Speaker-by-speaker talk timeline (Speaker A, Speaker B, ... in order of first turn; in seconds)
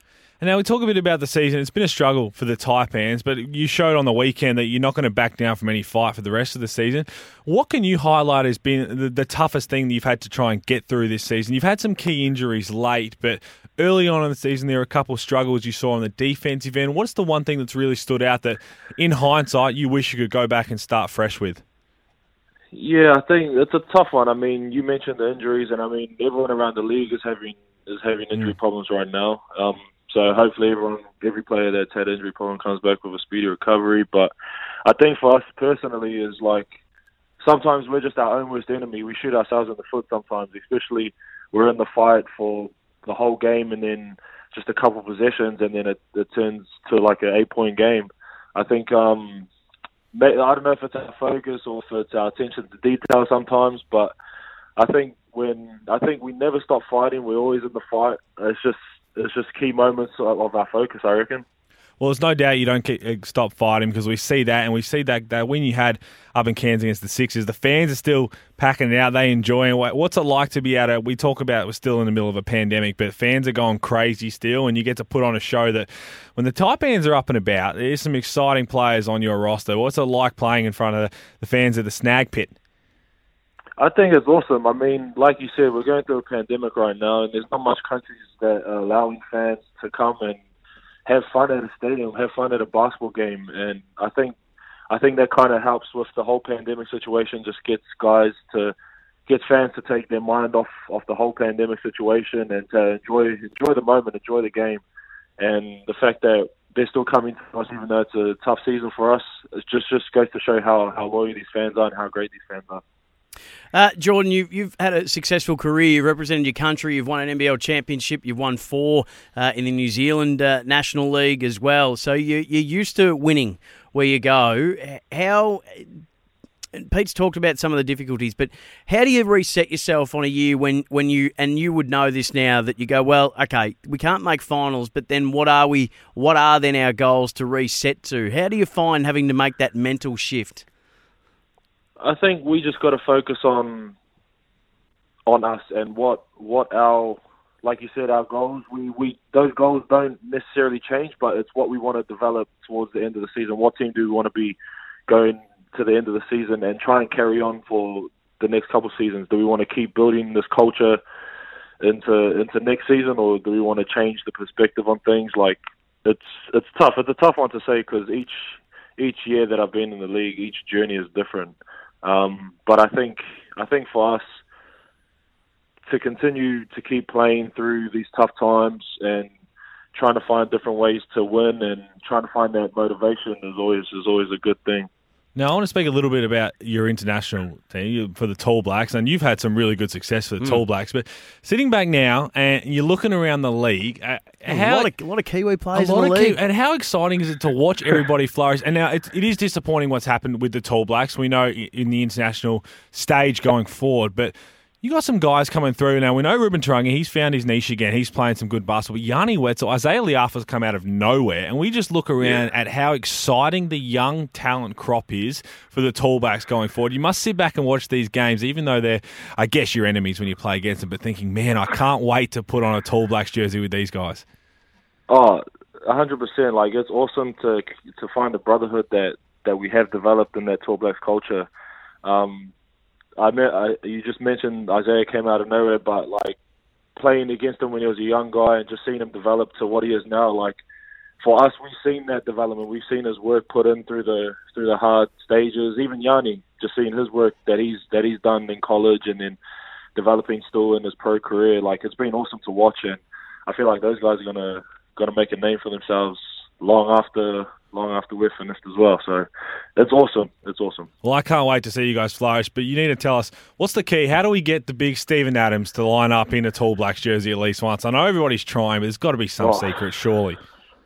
Speaker A: 0.4-21.6, 62.0-82.5, 185.3-194.9, 195.7-224.2, 261.0-270.4
Speaker B: 22.7-34.3, 34.8-36.7, 37.4-49.5, 50.1-54.1, 54.8-61.4, 83.8-90.4, 91.0-94.3, 94.9-98.7, 99.3-104.8, 105.4-112.8, 142.0-143.9, 145.2-154.6, 155.1-161.0, 161.8-168.3, 169.0-174.2, 175.9-179.3, 179.9-184.9, 225.1-231.5, 232.0-232.5, 233.2-236.4, 236.9-240.6, 241.2-249.4, 249.9-260.9, 269.4-269.7
Speaker C: 113.7-125.9, 126.7-140.6, 194.4-196.4